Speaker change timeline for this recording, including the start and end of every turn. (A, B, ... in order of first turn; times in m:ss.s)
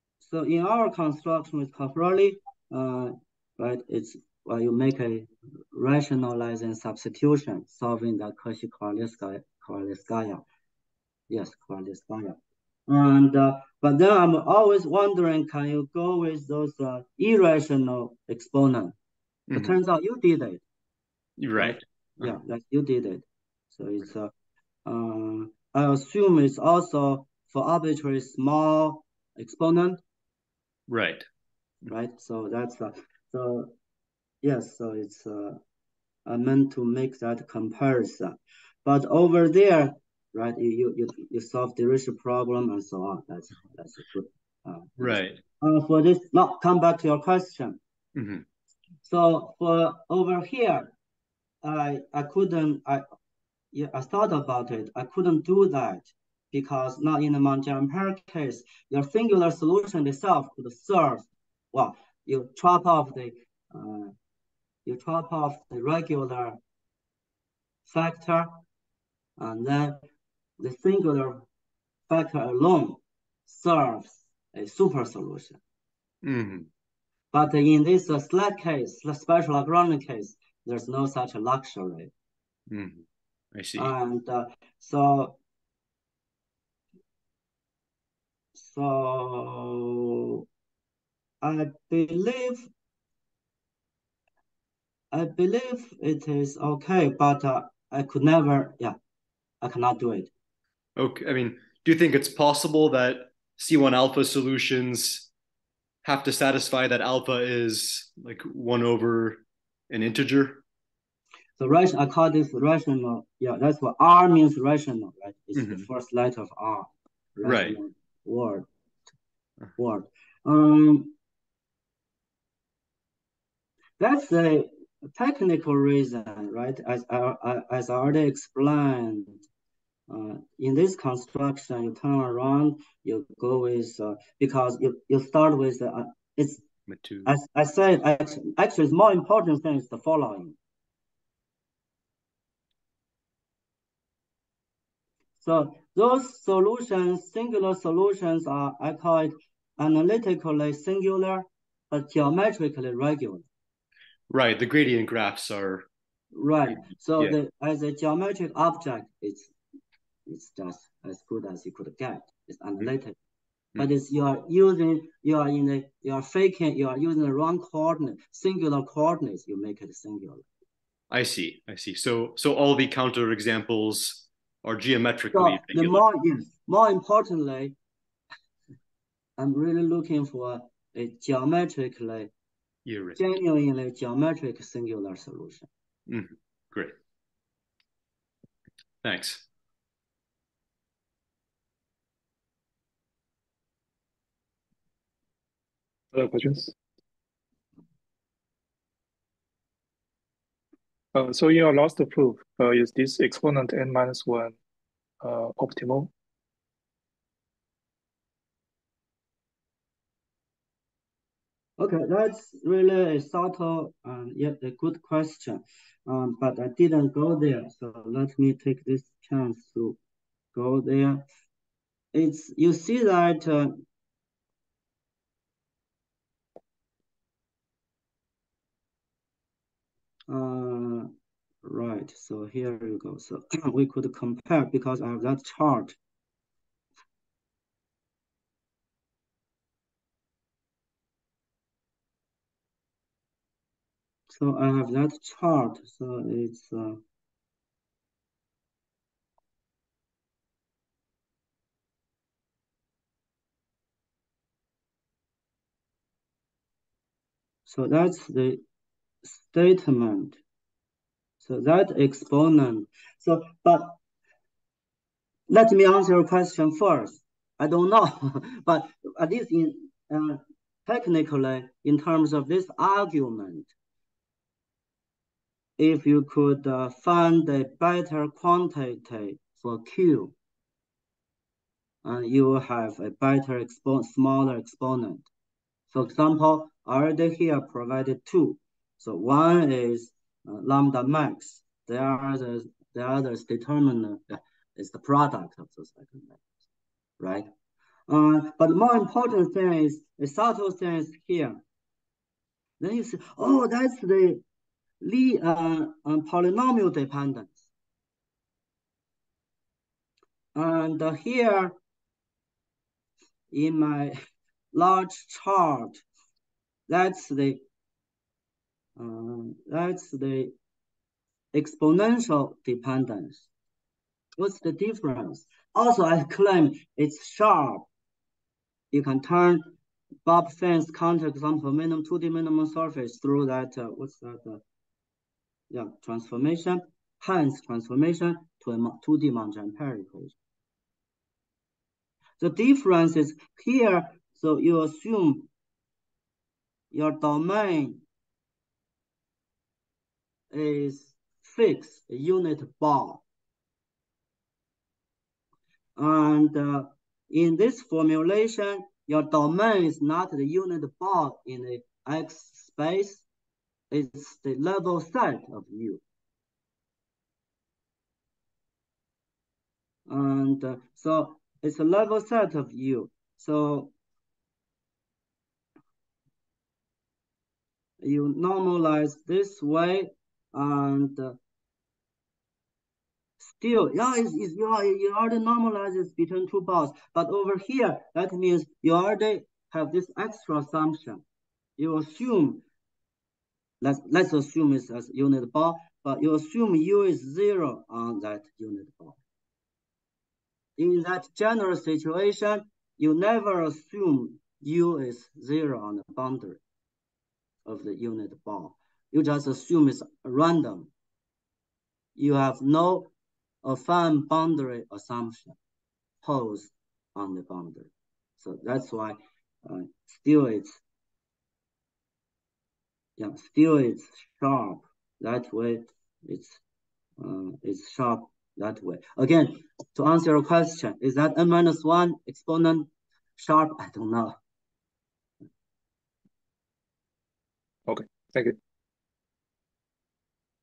0:00.2-0:10.4 A
0:11.3-0:19.0 A
0:19.5-0:19.8 B
0:19.5-0:20.6 A
0:21.4-0:22.4 B
0:21.6-0:24.3 A
0:24.9-0:30.0 A
0:30.9-0:31.2 B
0:31.9-0:33.7 A
0:34.4-0:35.6 A
0:36.3-0:47.8 A
0:45.0-0:45.4 B
0:48.2-0:48.4 B
0:49.0-0:50.9 A
0:51.6-0:53.1 A
0:53.7-1:04.1 A
1:04.9-1:06.6 A
1:07.9-1:08.6 A
1:09.4-1:10.0 A
1:10.6-1:11.4 A
1:12.1-1:15.6 A
1:16.2-1:16.7 B
1:17.3-1:22.1 A
1:22.7-1:23.9 B
1:23.8-1:25.4 A
1:28.6-1:30.1 A
1:31.4-1:32.7 A
1:35.1-1:39.0 A
1:39.6-1:40.3 A
1:41.0-1:45.3 B
1:46.0-1:50.6 B
1:51.6-1:58.7 A
1:55.6-1:55.9 B
1:57.4-1:57.8 B
1:59.8-2:01.1 A
2:04.0-2:09.4 A
2:10.1-2:16.6 A
2:16.9-2:17.3 B
2:17.2-2:20.6 A
2:25.4-2:33.4 A
2:34.3-2:35.9 B
2:36.3-2:39.5 A
2:40.3-2:43.2 A
2:43.8-2:50.5 A
2:51.1-2:56.0 B
2:55.3-2:57.8 A
2:59.4-3:02.3 A
3:02.9-3:03.2 B
3:03.2-3:05.7 A
3:06.1-3:07.0 B
3:09.0-3:09.4 B
3:16.1-3:16.7 C
3:21.1-3:24.6 C
3:25.2-3:26.1 C
3:31.8-3:40.0 A
3:40.5-3:41.2 A
3:42.1-3:43.8 A
3:50.3-3:51.1 A
3:51.6-3:56.0 A
4:04.3-4:07.0 A
4:17.7-4:18.6 A
4:19.2-4:20.4 A
4:21.4-4:24.0 A
4:25.5-4:33.7 A
4:35.8-4:40.3 A
4:42.0-4:45.3 A
4:45.9-4:56.4 A
4:57.2-4:57.5 A
4:58.1-5:01.6 A
5:02.8-5:04.4 A
5:05.0-5:07.7 A
5:10.6-5:11.8 A
5:13.5-5:14.2 A
5:14.7-5:16.0 A
5:16.9-5:17.6 A
5:19.0-5:20.5 A
5:21.5-5:23.5 A
5:24.4-5:27.9 A
5:28.9-5:29.7 A
5:30.3-5:34.6 A
5:35.7-5:40.4 A
5:42.4-5:45.5 A
5:46.9-5:48.0 A
5:50.5-5:53.2 A
5:56.0-6:03.2 A
6:03.9-6:06.0 A
6:10.1-6:13.9 A
6:18.0-6:21.4 A
6:23.4-6:31.2 A
6:31.8-6:32.6 A
6:33.8-6:39.2 A
6:40.8-6:46.6 A
6:47.6-6:50.9 A
6:52.2-6:53.1 A
6:53.6-6:55.6 A
6:56.2-7:00.8 A
7:03.2-7:06.6 A
7:07.2-7:14.4 A
7:17.9-7:18.6 C